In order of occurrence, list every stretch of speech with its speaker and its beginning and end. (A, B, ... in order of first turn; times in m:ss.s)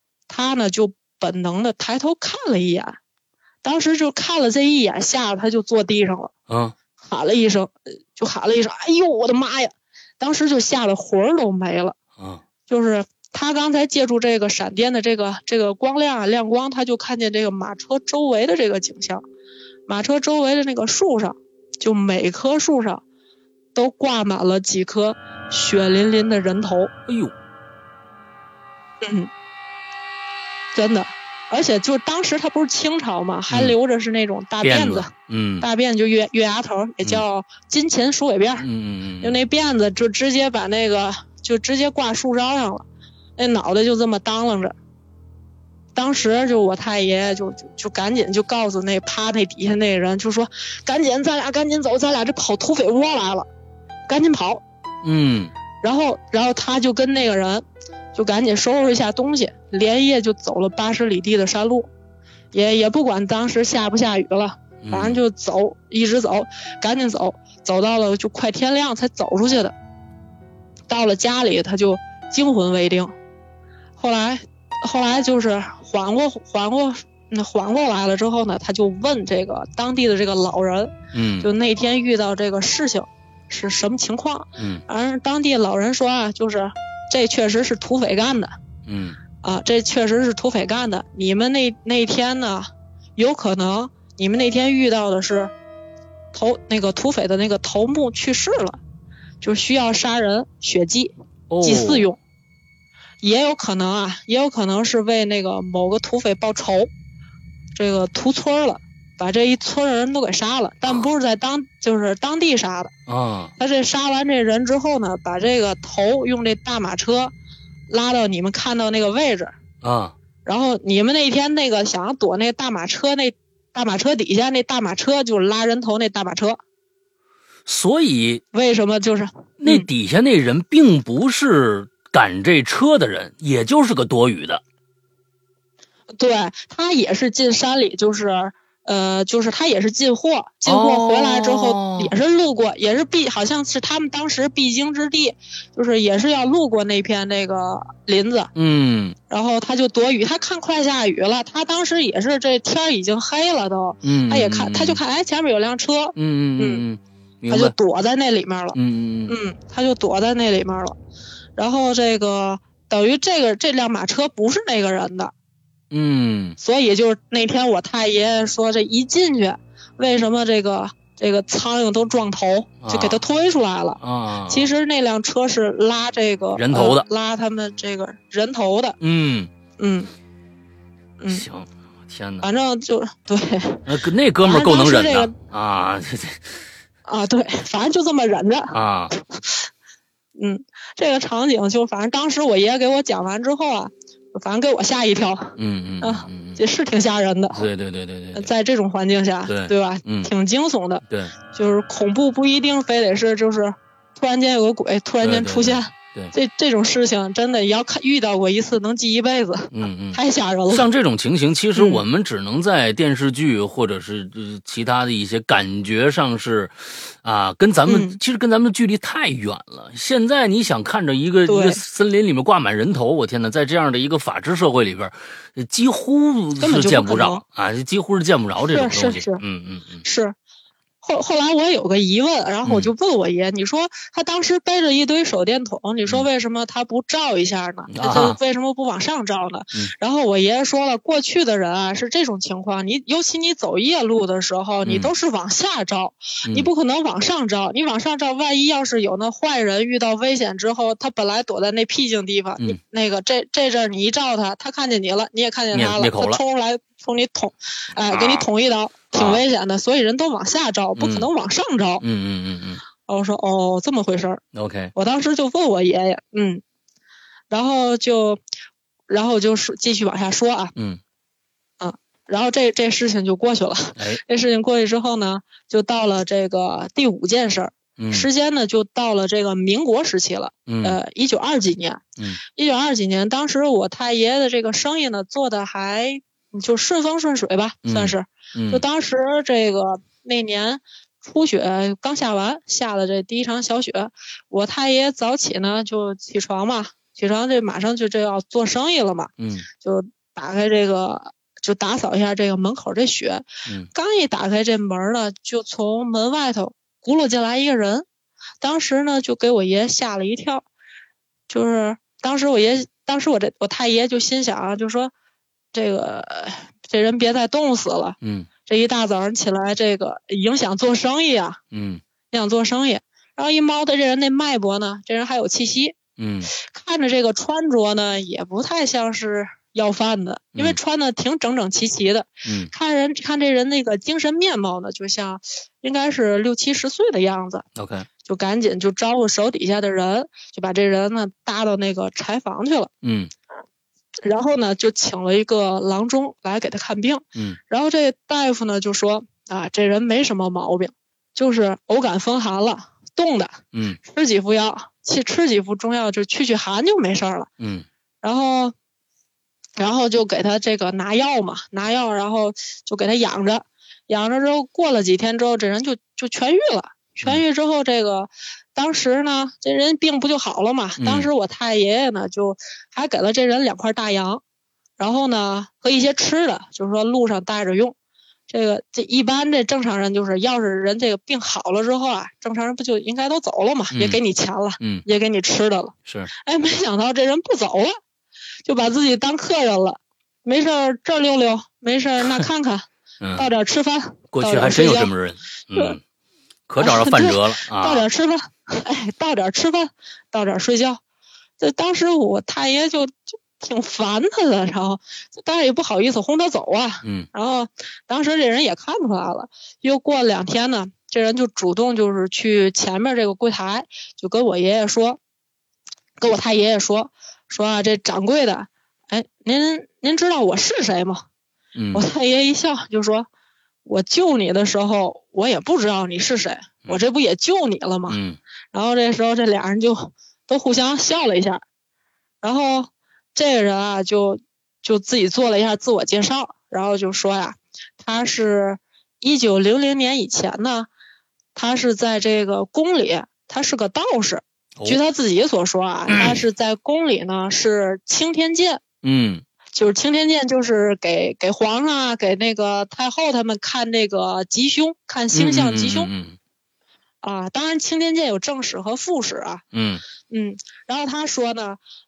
0:00.3-0:03.0 A
0:03.6-0:06.3 A
0:06.5-0:06.8 B
0:07.0-0:12.0 A
0:12.2-0:12.4 B
0:12.7-0:19.2 A
0:19.9-0:23.0 A
0:23.8-0:26.9 A
0:27.1-0:27.3 B
0:29.0-0:29.3 A
0:30.7-0:38.7 A
0:33.5-0:33.8 B
0:34.6-0:35.7 B
0:38.6-0:39.4 B
0:39.2-0:42.9 A
0:43.4-0:44.8 A
0:46.0-0:53.5 A
0:54.1-0:54.6 A
0:55.0-0:55.5 B
0:55.8-1:01.9 A
1:02.5-1:09.8 A
1:04.8-1:05.2 B
1:10.9-1:13.1 A
1:14.0-1:28.5 A
1:21.1-1:21.5 B
1:24.6-1:24.8 B
1:28.9-1:29.2 B
1:29.4-1:35.5 A
1:36.3-1:38.8 A
1:39.4-1:42.2 A
1:41.5-1:42.1 B
1:43.2-1:46.9 A
1:47.8-1:52.9 A
1:53.1-1:53.5 B
1:53.6-1:57.3 A
1:57.9-1:59.5 A
1:59.8-2:00.2 B
2:00.4-2:06.6 A
2:07.7-2:08.4 B
2:08.5-2:09.9 A
2:09.6-2:14.6 B
2:16.1-2:28.5 A
2:20.7-2:22.2 B
2:28.6-2:29.2 B
2:29.3-2:36.8 A
2:34.0-2:35.0 B
2:36.2-2:37.7 B
2:37.5-2:41.0 A
2:38.8-2:39.4 B
2:41.6-2:45.3 A
2:45.9-2:46.6 B
2:46.6-2:59.0 A
2:52.8-2:53.2 B
2:54.0-2:54.7 B
2:56.6-2:57.1 B
2:59.0-2:59.5 B
2:59.8-3:00.1 A
3:01.2-3:01.5 A
3:01.3-3:02.5 B
3:02.4-3:03.9 A
3:03.9-3:06.6 B
3:04.4-3:05.4 A
3:07.0-3:09.6 A
3:08.7-3:09.1 B
3:10.4-3:17.7 A
3:15.6-3:16.6 B
3:17.5-3:18.5 B
3:18.3-3:30.9 A
3:19.5-3:20.3 B
3:21.1-3:21.4 B
3:25.2-3:26.3 B
3:29.7-3:50.0 B
3:31.8-3:32.0 A
3:37.9-3:38.2 A
3:41.5-3:41.8 A
3:46.6-3:47.4 A
3:48.7-3:49.4 A
3:50.0-3:50.4 A
3:51.0-4:22.0 A
3:52.6-3:52.9 B
3:57.9-3:58.4 B
4:04.8-4:05.1 B
4:15.7-4:16.4 B
4:18.1-4:18.5 B
4:19.1-4:19.4 B
4:21.0-4:21.3 B
4:22.0-4:22.8 B
4:23.1-4:24.4 A
4:24.5-4:24.9 B
4:24.9-4:26.6 A
4:27.5-4:28.4 A
4:29.1-4:30.7 A
4:30.8-4:31.0 B
4:31.8-5:08.1 A
4:38.0-4:38.3 B
4:40.7-4:41.0 B
4:47.8-4:48.8 B
4:59.4-4:59.7 B
5:08.6-5:10.7 A
5:11.5-5:15.1 A
5:15.7-5:21.6 A
5:18.2-5:18.5 B
5:21.7-5:22.0 B
5:22.3-5:26.0 A
5:26.2-5:26.5 B
5:26.5-5:37.7 A
5:32.4-5:32.7 B
5:37.8-5:38.1 B
5:38.2-5:42.9 A
5:43.0-5:43.3 B
5:44.2-5:57.5 A
5:53.7-5:54.0 B
5:57.6-5:57.9 B
5:58.2-5:58.7 A
5:59.8-6:14.4 A
6:11.0-6:11.3 B
6:15.0-6:18.0 A
6:18.5-6:28.0 A
6:23.9-6:24.2 B
6:24.8-6:25.0 B
6:28.6-6:35.1 A
6:33.2-6:33.5 B
6:34.3-6:36.0 B
6:36.7-6:38.1 B
6:36.8-6:41.0 A
6:41.6-6:55.2 A
6:47.0-6:47.3 B
6:56.2-7:01.2 A
7:01.8-7:02.1 B
7:01.9-7:03.3 A
7:03.8-7:08.2 A
7:08.1-7:08.4 B
7:08.7-7:11.6 A
7:12.4-7:20.9 A
7:21.6-7:28.8 A
7:26.1-7:26.4 B
7:29.0-7:29.4 B
7:29.7-7:36.1 A
7:35.3-7:36.4 B
7:37.2-7:39.6 A
7:39.7-7:40.0 B
7:40.3-7:41.8 A